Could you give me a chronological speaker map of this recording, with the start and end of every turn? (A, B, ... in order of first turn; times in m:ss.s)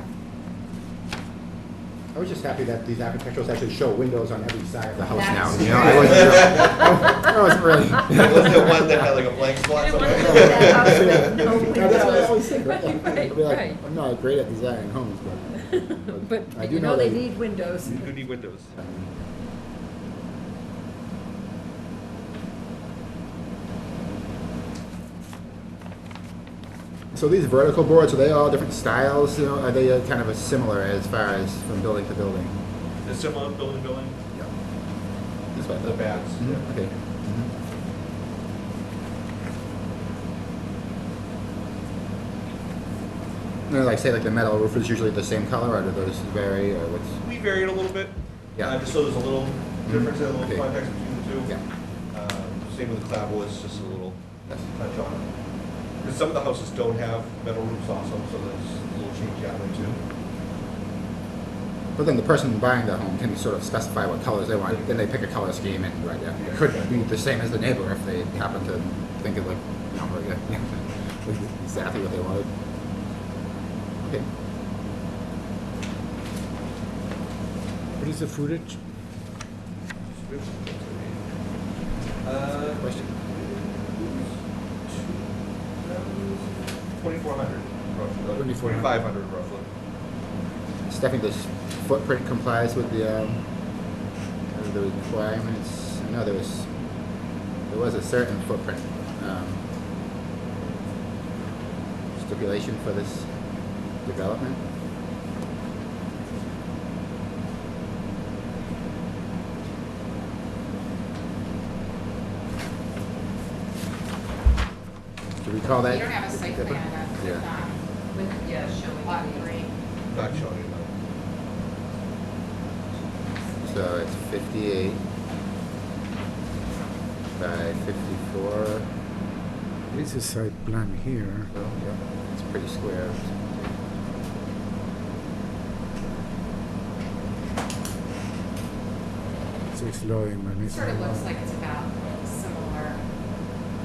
0:02.1-0:09.1 A
0:05.1-0:06.5 B
0:06.1-0:06.8 C
0:08.1-0:12.2 C
0:09.9-0:13.8 D
0:10.0-0:17.3 A
0:11.5-0:11.9 B
0:15.7-0:18.2 D
0:17.8-0:18.7 C
0:18.7-0:19.2 A
0:27.1-0:32.6 A
0:33.0-0:34.2 C
0:35.5-0:37.5 A
0:35.6-0:36.9 C
0:43.7-0:47.2 A
0:47.2-0:51.5 C
0:48.6-0:48.9 A
0:49.8-0:50.7 A
0:52.1-0:55.3 C
0:56.0-1:00.0 C
1:02.0-1:12.5 A
1:06.4-1:07.1 C
1:14.0-1:14.3 A
1:18.0-1:18.8 E
1:20.1-1:21.4 C
1:22.2-1:29.7 C
1:22.4-1:23.2 A
1:28.3-1:29.0 E
1:30.9-1:33.5 A
1:34.5-1:36.7 A
1:37.7-1:39.6 A
1:42.2-1:43.4 A
1:44.0-1:44.6 A
1:55.4-1:57.5 A
1:55.9-1:57.8 B
1:58.1-1:59.6 D
1:59.0-1:59.7 B
2:00.1-2:00.9 C
2:03.6-2:05.0 A
2:07.4-2:08.9 A
2:09.9-2:11.5 E
2:11.5-2:13.9 A
2:19.7-2:21.4 E
2:20.6-2:23.0 B